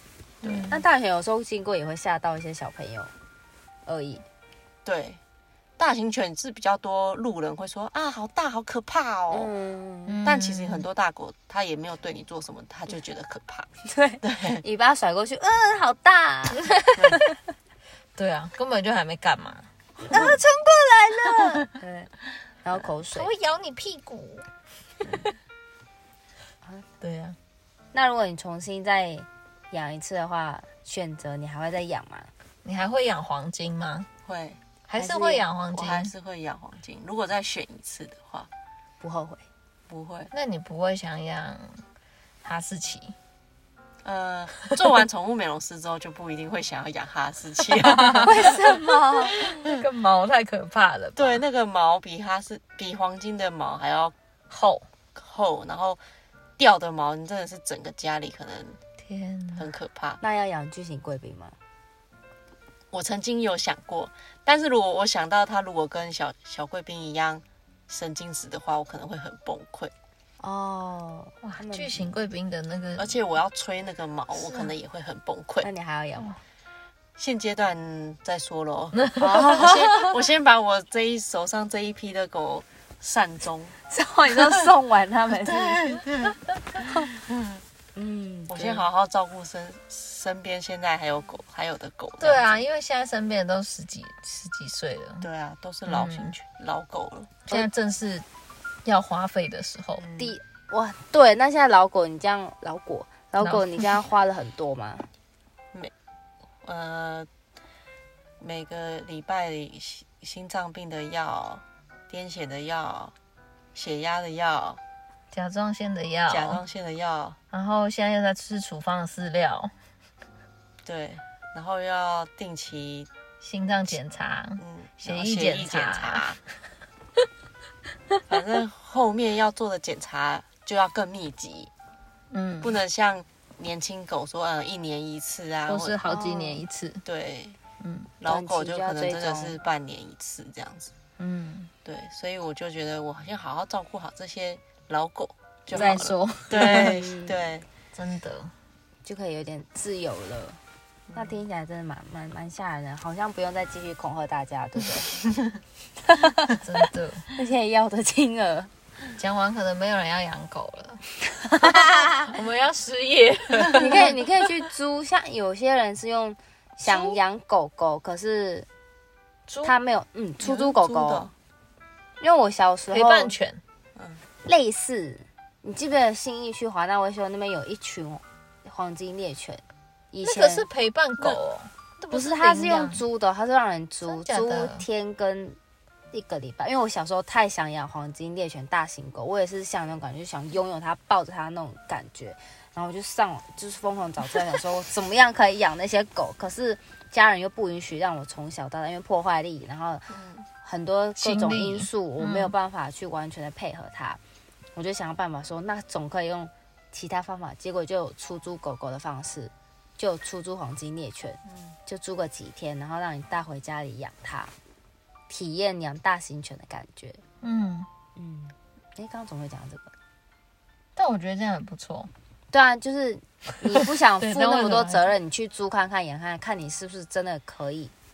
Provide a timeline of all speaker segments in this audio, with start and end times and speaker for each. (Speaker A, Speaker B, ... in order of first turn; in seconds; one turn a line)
Speaker A: 0.4-0.7
Speaker B: 0.4-0.8
Speaker C: 0.7-3.1
Speaker C: 3.9-4.2
Speaker A: 4.8-5.2
Speaker A: 5.8-9.5
Speaker C: 9.3-10.2
Speaker B: 10.1-10.9
Speaker A: 10.2-13.7
Speaker C: 13.8-17.2
Speaker A: 14.2-14.6
Speaker B: 16.7-17.2
Speaker A: 16.9-17.2
Speaker B: 18.1-20.4
Speaker C: 20.1-22.1
Speaker B: 21.2-21.6
Speaker C: 22.6-23.3
Speaker B: 23.1-24.5
Speaker C: 25.0-25.3
Speaker B: 27.0-27.4
Speaker C: 27.9-32.3
Speaker B: 32.6-34.1
Speaker A: 34.2-34.6
Speaker B: 34.9-36.1
Speaker C: 34.9-35.4
Speaker A: 35.7-38.5
Speaker C: 39.0-39.4
Speaker A: 39.9-40.3
Speaker B: 40.3-41.8
Speaker B: 42.4-43.1
Speaker A: 44.0-48.8
Speaker B: 47.7-51.4
Speaker C: 48.2-49.4
Speaker A: 49.5-49.8
Speaker A: 51.1-54.1
Speaker B: 54.5-54.8
Speaker A: 55.1-56.0
Speaker A: 56.6-58.8
Speaker B: 59.0-59.7
Speaker A: 59.5-60.2
Speaker C: 60.2-61.5
Speaker A: 62.9-69.9
Speaker C: 70.4-72.1
Speaker B: 71.4-73.1
Speaker A: 73.0-75.7
Speaker C: 75.6-76.3
Speaker A: 77.2-83.8
Speaker B: 79.0-80.1
Speaker C: 79.2-80.1
Speaker C: 83.9-86.0
Speaker A: 85.3-86.4
Speaker A: 87.1-87.6
Speaker C: 88.0-88.8
Speaker A: 88.5-92.6
Speaker B: 92.2-95.2
Speaker A: 95.2-97.4
Speaker B: 95.8-96.3
Speaker B: 97.5-98.2
Speaker B: 98.8-100.0
Speaker A: 100.0-100.3
Speaker C: 100.2-105.1
Speaker B: 103.4-103.8
Speaker A: 106.6-107.3
Speaker A: 108.4-113.1
Speaker A: 113.7-114.8
Speaker B: 115.3-116.6
Speaker A: 116.3-117.4
Speaker B: 117.5-119.7
Speaker A: 120.8-123.1
Speaker B: 123.4-126.2
Speaker A: 124.6-126.4
Speaker A: 128.3-131.7
Speaker B: 132.3-132.8
Speaker A: 132.6-136.0
Speaker B: 135.7-137.0
Speaker C: 136.0-136.6
Speaker A: 137.0-137.6
Speaker B: 137.8-138.1
Speaker A: 138.2-140.9
Speaker C: 138.2-139.5
Speaker B: 141.2-141.7
Speaker A: 141.8-147.7
Speaker B: 145.7-147.0
Speaker C: 145.7-147.3
Speaker B: 147.9-148.5
Speaker C: 149.1-150.6
Speaker C: 151.1-155.2
Speaker C: 156.1-156.6
Speaker B: 156.6-157.3
Speaker C: 157.3-158.7
Speaker B: 159.2-161.0
Speaker C: 161.4-162.3
Speaker B: 161.6-164.5
Speaker C: 163.7-168.7
Speaker B: 166.9-167.2
Speaker B: 169.5-169.7
Speaker C: 169.6-171.3
Speaker A: 170.4-171.3
Speaker C: 172.2-173.3
Speaker B: 172.9-173.6
Speaker A: 173.9-174.2
Speaker C: 174.4-180.7
Speaker B: 180.2-183.0
Speaker C: 182.1-185.6
Speaker B: 184.1-184.8
Speaker C: 186.1-200.1
Speaker A: 200.1-200.4
Speaker C: 200.6-204.2
Speaker B: 201.2-202.5
Speaker C: 204.7-214.5
Speaker A: 211.5-211.8
Speaker C: 215.3-217.2
Speaker B: 217.4-217.9
Speaker C: 218.2-219.9
Speaker B: 220.9-222.1
Speaker C: 222.5-227.9
Speaker B: 223.7-225.1